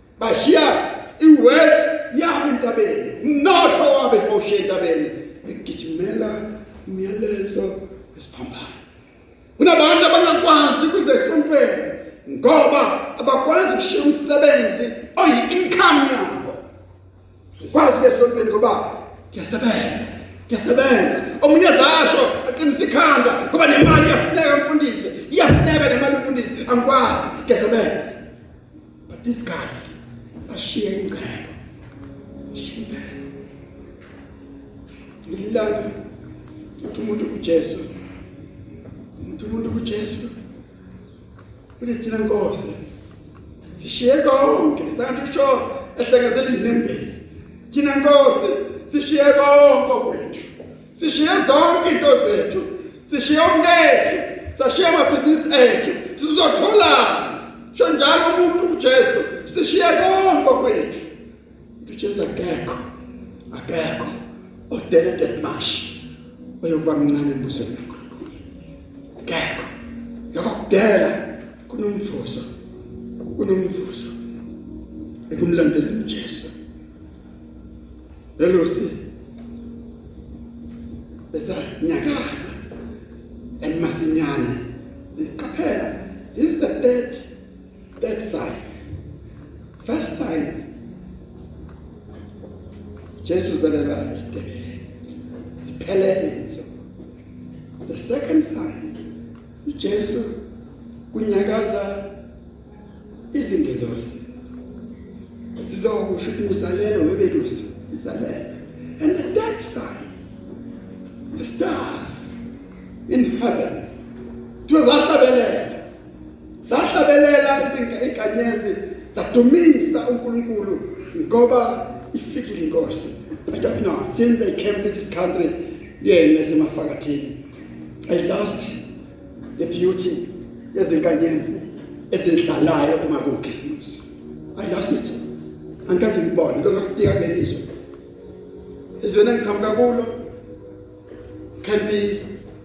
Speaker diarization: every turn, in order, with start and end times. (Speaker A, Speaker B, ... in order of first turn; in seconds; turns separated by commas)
Speaker A: 0.2-8.8, Speaker A: 9.6-16.6, Speaker A: 17.6-28.2, Speaker A: 29.1-31.5, Speaker A: 32.5-33.2, Speaker A: 35.2-35.9, Speaker A: 36.8-37.9, Speaker A: 39.2-40.3, Speaker A: 41.8-42.8, Speaker A: 43.7-61.1, Speaker A: 61.8-62.8, Speaker A: 63.5-64.2, Speaker A: 64.7-66.0, Speaker A: 66.6-68.3, Speaker A: 69.2-69.7, Speaker A: 70.3-72.5, Speaker A: 73.3-74.2, Speaker A: 75.3-76.5, Speaker A: 78.4-79.0, Speaker A: 81.3-82.6, Speaker A: 83.6-84.6, Speaker A: 85.1-87.3, Speaker A: 88.0-88.7, Speaker A: 89.8-90.6, Speaker A: 93.2-94.8, Speaker A: 95.6-96.7, Speaker A: 97.8-99.0, Speaker A: 99.6-100.3, Speaker A: 101.1-102.0, Speaker A: 103.3-104.3, Speaker A: 105.6-110.1, Speaker A: 111.3-112.4, Speaker A: 113.1-113.9, Speaker A: 114.7-115.8, Speaker A: 116.6-127.3, Speaker A: 128.1-128.8, Speaker A: 129.6-135.2, Speaker A: 135.9-137.7, Speaker A: 139.0-140.2, Speaker A: 141.6-142.2